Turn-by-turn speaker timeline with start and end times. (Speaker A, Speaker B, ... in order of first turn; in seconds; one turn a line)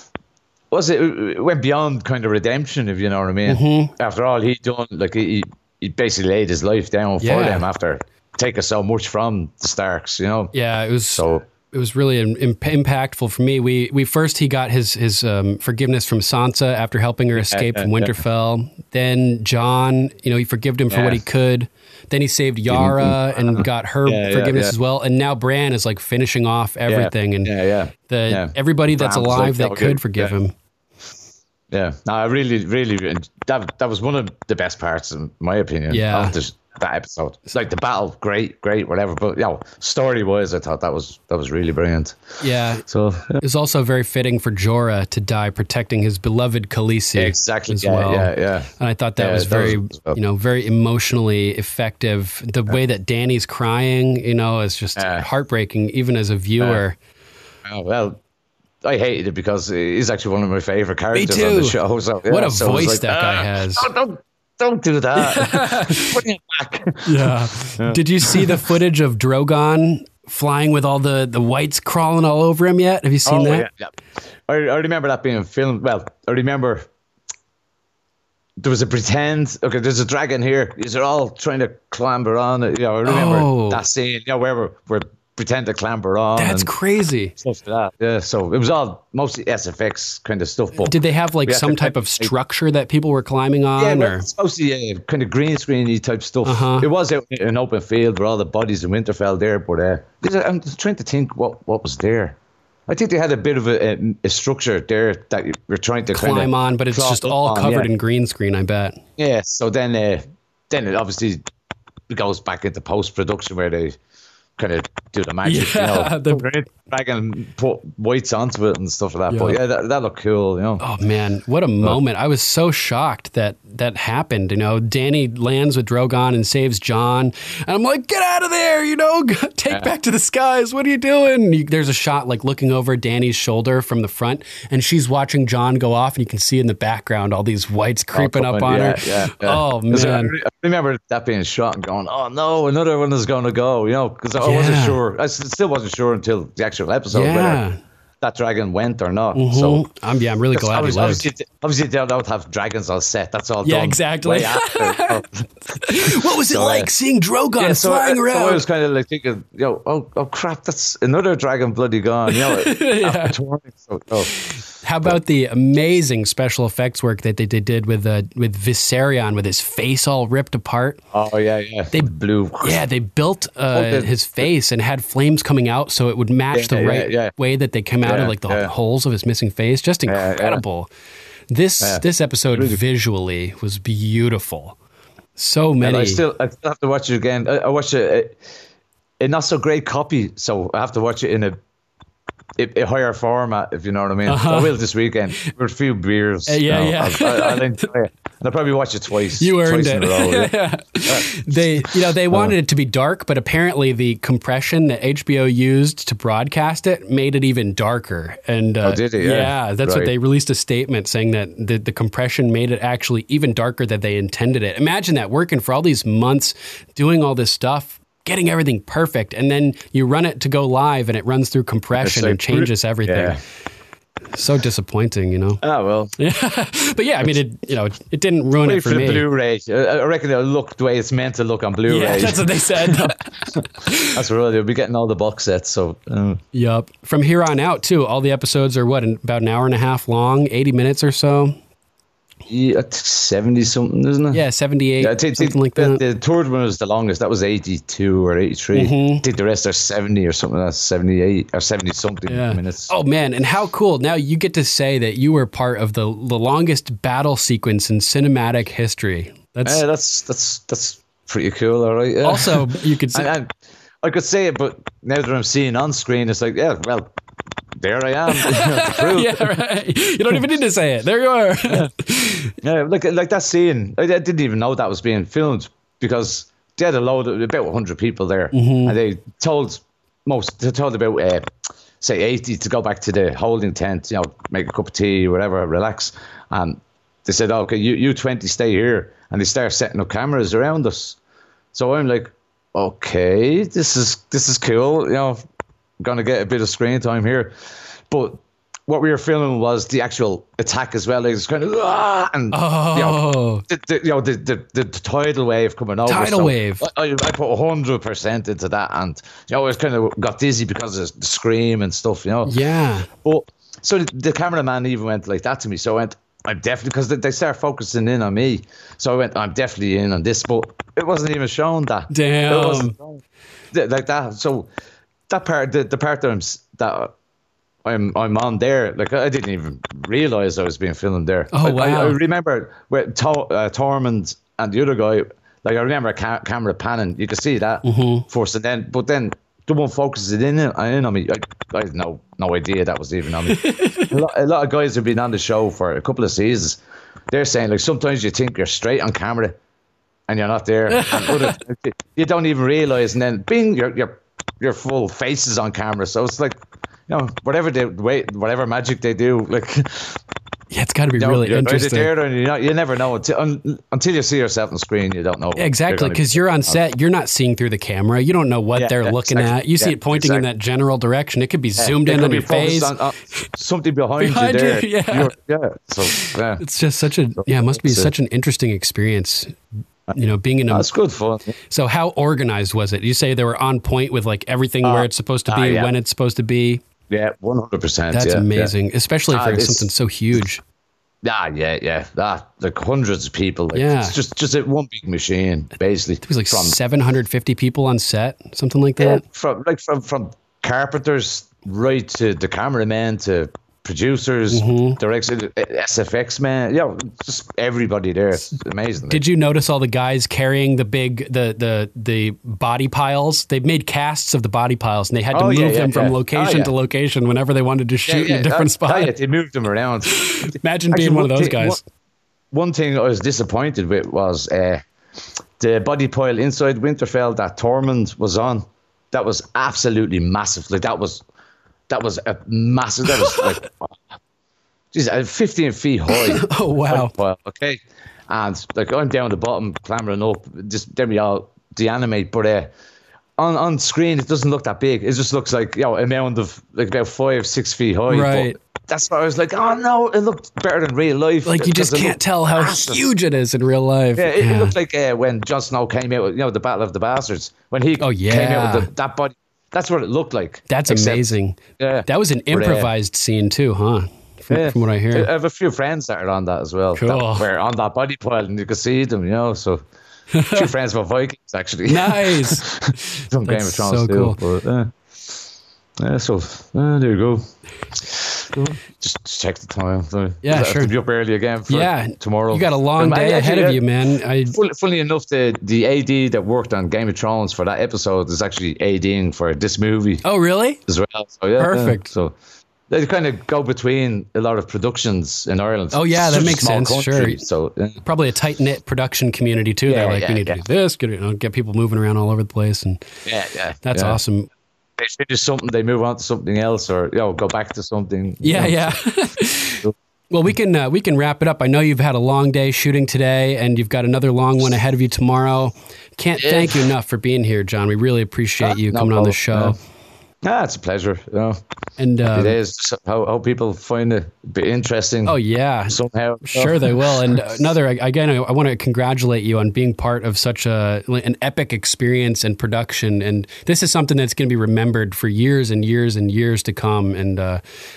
Speaker A: 0.7-10.6
Speaker B: 3.5-3.9
Speaker B: 7.2-7.7
Speaker B: 10.5-27.5
Speaker A: 11.2-11.4
Speaker A: 17.4-18.2
Speaker A: 20.9-21.2
Speaker A: 22.7-24.8
Speaker A: 26.9-30.4
Speaker B: 28.1-30.5
Speaker A: 31.7-42.2
Speaker B: 35.9-36.4
Speaker B: 42.4-42.9
Speaker A: 42.8-43.4
Speaker B: 43.4-57.0
Speaker A: 47.2-50.2
Speaker A: 55.0-55.3
Speaker A: 57.7-58.2
Speaker A: 58.8-68.7
Speaker B: 61.1-63.9
Speaker B: 65.2-66.2
Speaker B: 67.0-73.7
Speaker A: 73.3-73.9
Speaker A: 74.5-76.9
Speaker A: 78.6-86.7
Speaker B: 83.0-83.8
Speaker B: 86.4-87.3
Speaker A: 87.4-92.3
Speaker B: 90.8-94.3
Speaker A: 93.8-102.4
Speaker B: 96.5-96.9
Speaker A: 102.9-107.9
Speaker B: 106.1-109.0
Speaker A: 109.2-111.4
Speaker A: 112.1-114.0
Speaker A: 114.6-120.8
Speaker B: 115.4-116.5
Speaker B: 119.3-119.6
Speaker B: 120.8-140.3
Speaker A: 138.1-147.6
Speaker B: 144.4-145.0
Speaker B: 147.1-147.8
Speaker A: 148.2-149.9
Speaker B: 149.3-151.3
Speaker A: 150.5-156.9
Speaker B: 153.6-155.2
Speaker B: 155.7-158.6
Speaker A: 157.6-164.4
Speaker B: 162.3-163.4
Speaker B: 164.4-171.0
Speaker A: 171.1-172.8
Speaker B: 171.9-180.9
Speaker A: 173.7-174.1
Speaker A: 176.5-177.3
Speaker A: 178.0-178.7
Speaker A: 180.1-180.6
Speaker B: 181.5-184.8
Speaker A: 181.8-182.8
Speaker B: 185.4-186.2
Speaker A: 185.8-188.4
Speaker A: 189.2-191.6
Speaker A: 192.6-200.5
Speaker B: 194.3-194.8
Speaker B: 196.5-197.9
Speaker B: 199.4-223.4
Speaker A: 201.1-202.6
Speaker A: 208.8-210.1
Speaker A: 222.0-223.4
Speaker B: 224.3-225.6
Speaker A: 225.6-226.2
Speaker B: 226.2-229.3
Speaker A: 228.6-236.4
Speaker B: 231.9-234.2
Speaker B: 236.5-241.6
Speaker A: 242.5-244.4
Speaker B: 244.3-246.0
Speaker A: 245.0-252.9
Speaker B: 248.7-249.2
Speaker B: 252.3-259.8
Speaker A: 259.6-267.1
Speaker B: 262.2-263.3
Speaker A: 267.8-269.5
Speaker B: 268.3-272.5
Speaker A: 272.6-281.5
Speaker B: 278.5-279.0
Speaker A: 282.0-291.2
Speaker A: 291.7-295.4
Speaker A: 296.0-297.6
Speaker A: 298.1-312.6
Speaker B: 302.5-303.6
Speaker B: 306.1-306.9
Speaker B: 312.5-313.1
Speaker A: 313.2-324.7
Speaker B: 322.1-322.9
Speaker A: 325.3-327.1
Speaker A: 327.8-349.6
Speaker B: 331.5-332.2
Speaker B: 337.8-338.3
Speaker B: 343.5-344.2
Speaker A: 350.3-360.2
Speaker B: 350.9-351.6
Speaker B: 360.7-362.1
Speaker A: 361.2-366.8
Speaker B: 365.6-373.5
Speaker A: 368.8-370.4
Speaker A: 371.8-376.6
Speaker B: 374.2-375.3
Speaker B: 376.1-379.6
Speaker A: 377.4-378.1
Speaker B: 380.1-380.9
Speaker A: 380.7-381.6
Speaker B: 381.7-386.8
Speaker A: 384.8-385.9
Speaker A: 387.1-388.7
Speaker B: 388.1-390.6
Speaker A: 389.3-389.9
Speaker A: 391.2-396.8
Speaker B: 393.7-394.2
Speaker B: 396.2-399.2
Speaker A: 399.0-409.2
Speaker B: 404.5-405.0
Speaker B: 409.1-419.1
Speaker A: 415.3-416.7
Speaker A: 418.1-421.8
Speaker B: 420.1-421.8
Speaker A: 422.5-424.8
Speaker A: 425.6-431.2
Speaker A: 431.9-434.0
Speaker A: 434.9-442.7
Speaker B: 436.1-437.1
Speaker A: 443.4-453.1
Speaker B: 448.1-448.6
Speaker B: 451.4-454.8
Speaker A: 454.2-462.9
Speaker B: 458.0-458.9
Speaker B: 460.7-465.3
Speaker A: 464.5-469.8
Speaker B: 466.9-467.5
Speaker B: 470.3-470.7
Speaker A: 470.5-475.4
Speaker B: 471.9-474.4
Speaker A: 476.0-483.8
Speaker B: 480.4-480.9
Speaker B: 481.7-484.6
Speaker A: 484.5-490.2
Speaker B: 490.2-490.8
Speaker A: 490.9-492.4
Speaker B: 491.6-492.1
Speaker A: 492.9-498.0
Speaker B: 495.9-497.4
Speaker B: 498.0-503.1
Speaker A: 499.9-500.6
Speaker A: 503.3-504.2
Speaker B: 503.8-504.5
Speaker A: 505.0-509.0
Speaker B: 508.4-519.8
Speaker A: 516.4-516.9
Speaker A: 518.6-519.8
Speaker A: 520.4-521.6
Speaker B: 522.0-522.6
Speaker A: 522.3-525.4
Speaker B: 525.3-537.6
Speaker A: 525.9-527.7